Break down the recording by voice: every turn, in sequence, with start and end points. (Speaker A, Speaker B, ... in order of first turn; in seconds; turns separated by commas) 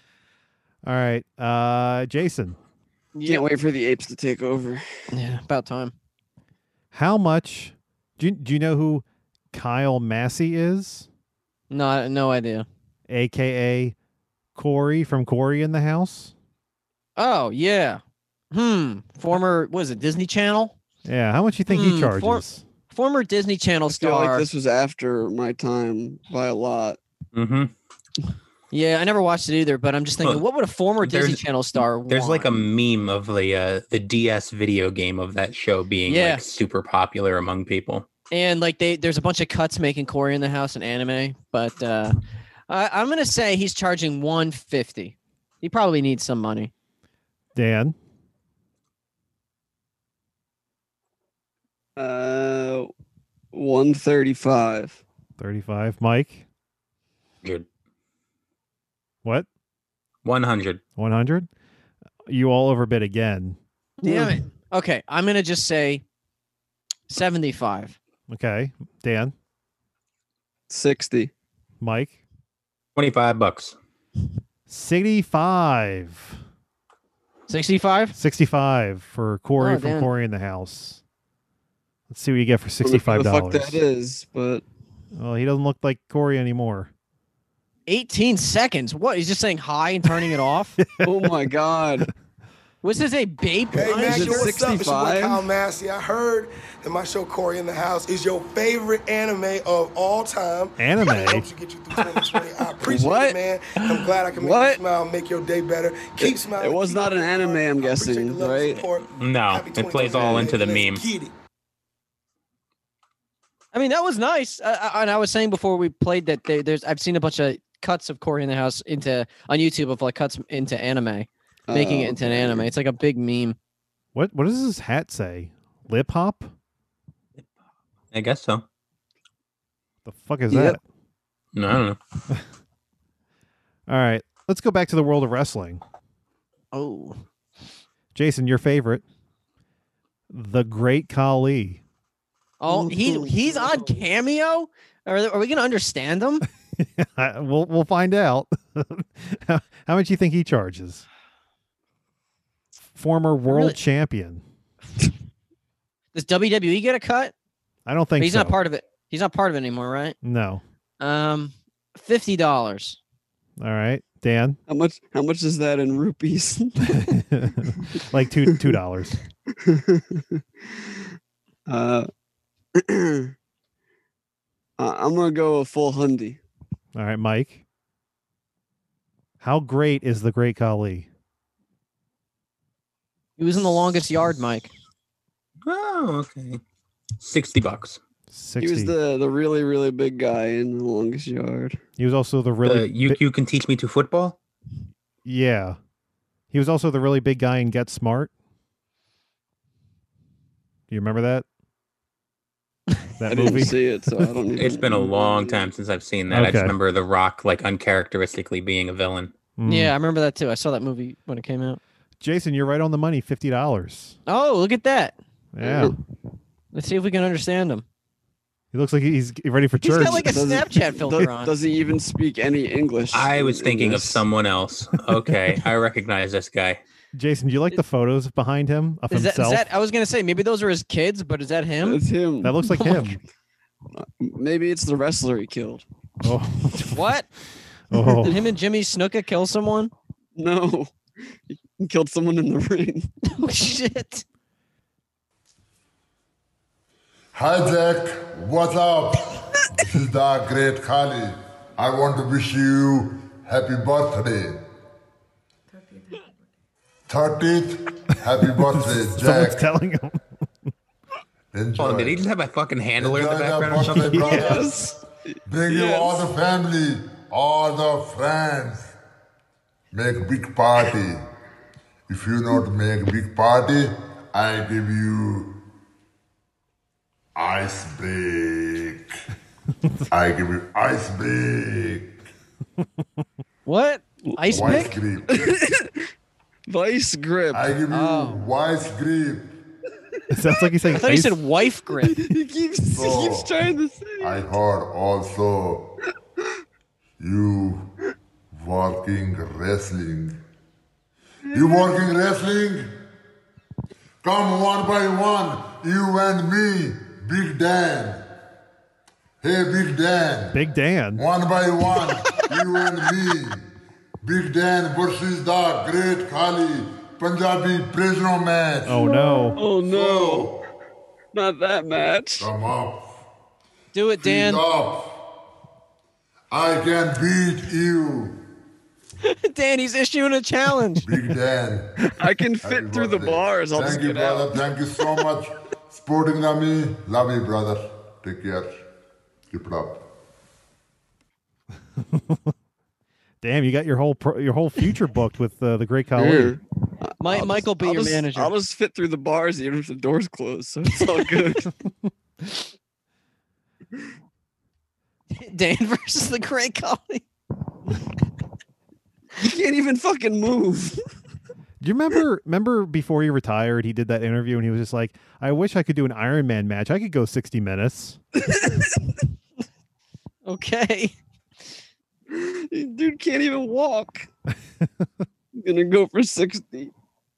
Speaker A: 0.8-2.6, Speaker B: 3.1-3.5, Speaker C: 3.2-4.8, Speaker B: 5.1-5.9, Speaker A: 6.9-11.1, Speaker B: 11.7-12.7, Speaker A: 13.1-13.9, Speaker A: 14.6-16.3, Speaker B: 17.2-18.0, Speaker B: 18.5-20.8, Speaker A: 21.1-22.6, Speaker B: 21.7-24.5, Speaker C: 23.9-27.0, Speaker D: 27.3-27.7, Speaker B: 28.7-32.5, Speaker D: 31.0-38.1, Speaker B: 36.1-36.4, Speaker B: 38.3-42.2, Speaker B: 42.7-46.7, Speaker A: 47.5-48.0, Speaker C: 52.0-52.9, Speaker C: 53.5-55.0, Speaker A: 55.4-56.5, Speaker D: 60.2-60.8, Speaker A: 61.0-61.5, Speaker A: 62.3-63.6, Speaker B: 64.0-66.0, Speaker C: 64.0-64.5, Speaker B: 67.1-68.0, Speaker A: 68.3-69.3, Speaker C: 70.7-71.3, Speaker A: 71.8-72.2, Speaker D: 73.0-73.8, Speaker A: 74.7-76.4, Speaker B: 77.5-78.2, Speaker A: 78.2-81.0, Speaker B: 79.6-80.1, Speaker A: 82.1-83.8, Speaker C: 82.8-84.6, Speaker A: 85.1-86.9, Speaker B: 87.9-90.8, Speaker A: 90.8-91.3, Speaker C: 91.0-92.1, Speaker B: 92.8-94.6, Speaker E: 93.7-111.3, Speaker C: 93.9-95.5, Speaker A: 100.8-101.5, Speaker C: 102.8-103.4, Speaker C: 104.3-104.8, Speaker C: 106.2-108.9, Speaker D: 109.2-111.0, Speaker B: 113.7-123.6, Speaker C: 121.7-122.7, Speaker A: 124.1-126.5, Speaker D: 128.1-128.7, Speaker A: 130.1-130.8, Speaker C: 130.5-130.8, Speaker D: 131.5-132.0, Speaker A: 133.9-135.8, Speaker B: 136.7-137.2, Speaker A: 138.2-139.0, Speaker A: 140.3-141.8, Speaker B: 142.6-146.4, Speaker C: 142.7-144.0, Speaker A: 146.8-151.1, Speaker A: 153.0-154.4, Speaker B: 153.5-153.8, Speaker B: 156.1-157.3, Speaker A: 157.9-158.6, Speaker B: 158.2-160.2, Speaker A: 160.2-160.6, Speaker B: 161.0-163.0, Speaker A: 163.6-164.6, Speaker C: 164.7-167.1, Speaker A: 166.9-169.2, Speaker C: 169.6-170.8, Speaker C: 171.7-172.1, Speaker C: 172.8-173.3, Speaker C: 174.8-176.4, Speaker A: 176.9-177.6, Speaker A: 179.4-181.1, Speaker B: 183.4-184.7, Speaker D: 185.7-186.6, Speaker D: 187.2-188.0, Speaker A: 188.3-188.9, Speaker C: 188.6-191.8, Speaker A: 192.0-193.2, Speaker D: 192.6-194.4, Speaker A: 195.2-195.8, Speaker A: 196.5-198.3, Speaker A: 200.9-201.5, Speaker A: 203.2-204.3, Speaker C: 203.3-205.7, Speaker D: 204.6-209.3, Speaker A: 206.3-206.8, Speaker A: 209.6-209.9, Speaker B: 209.7-211.8, Speaker A: 212.2-214.2, Speaker B: 214.3-215.2, Speaker A: 215.5-215.9, Speaker C: 215.6-215.9, Speaker B: 216.7-217.8, Speaker A: 218.7-220.4, Speaker B: 219.8-221.5, Speaker C: 220.2-224.2, Speaker D: 223.1-226.8, Speaker A: 227.1-229.7, Speaker B: 229.1-232.0, Speaker C: 231.8-232.6, Speaker A: 232.4-233.2, Speaker B: 232.7-233.1, Speaker C: 234.0-235.8, Speaker A: 236.2-237.1, Speaker B: 236.9-237.3, Speaker A: 237.9-238.4, Speaker B: 238.1-239.9, Speaker C: 240.4-240.9, Speaker C: 241.5-243.1, Speaker B: 243.2-244.2, Speaker F: 247.3-254.6, Speaker F: 257.1-259.7, Speaker A: 258.9-260.2, Speaker F: 261.5-262.2, Speaker D: 261.8-264.4, Speaker F: 263.0-264.8, Speaker A: 263.8-264.9, Speaker C: 264.2-266.3, Speaker F: 265.5-268.9, Speaker F: 269.9-271.2, Speaker F: 272.1-275.5, Speaker F: 277.4-279.1, Speaker F: 280.1-282.2, Speaker B: 283.7-284.9, Speaker C: 284.2-285.9, Speaker F: 284.5-285.6, Speaker C: 286.7-287.8, Speaker F: 287.5-289.5, Speaker B: 287.9-288.4, Speaker A: 290.3-291.4, Speaker B: 291.0-292.2, Speaker C: 292.0-294.4, Speaker F: 292.9-293.5, Speaker F: 294.2-295.9, Speaker F: 297.2-297.9, Speaker F: 298.5-300.4, Speaker C: 301.5-301.9, Speaker F: 301.5-302.9, Speaker F: 304.2-308.2, Speaker F: 309.4-310.6, Speaker A: 310.5-311.2, Speaker F: 311.2-313.6, Speaker F: 314.2-319.1, Speaker A: 318.9-319.6, Speaker C: 319.5-320.5, Speaker F: 319.9-320.6, Speaker C: 321.3-322.5, Speaker F: 322.4-323.2, Speaker B: 323.9-324.6, Speaker F: 324.3-325.2, Speaker F: 326.5-328.4, Speaker B: 329.2-331.1, Speaker F: 331.0-332.0, Speaker C: 332.2-334.7, Speaker F: 332.6-338.8, Speaker F: 339.5-340.0, Speaker A: 342.1-342.4, Speaker A: 343.4-346.6, Speaker C: 346.2-346.6, Speaker C: 347.1-351.7, Speaker B: 347.2-348.5, Speaker B: 355.3-357.2, Speaker C: 359.4-361.0, Speaker A: 361.8-368.2, Speaker C: 368.4-369.0, Speaker B: 370.5-371.1, Speaker C: 372.3-374.3, Speaker A: 374.8-375.1, Speaker C: 375.6-376.9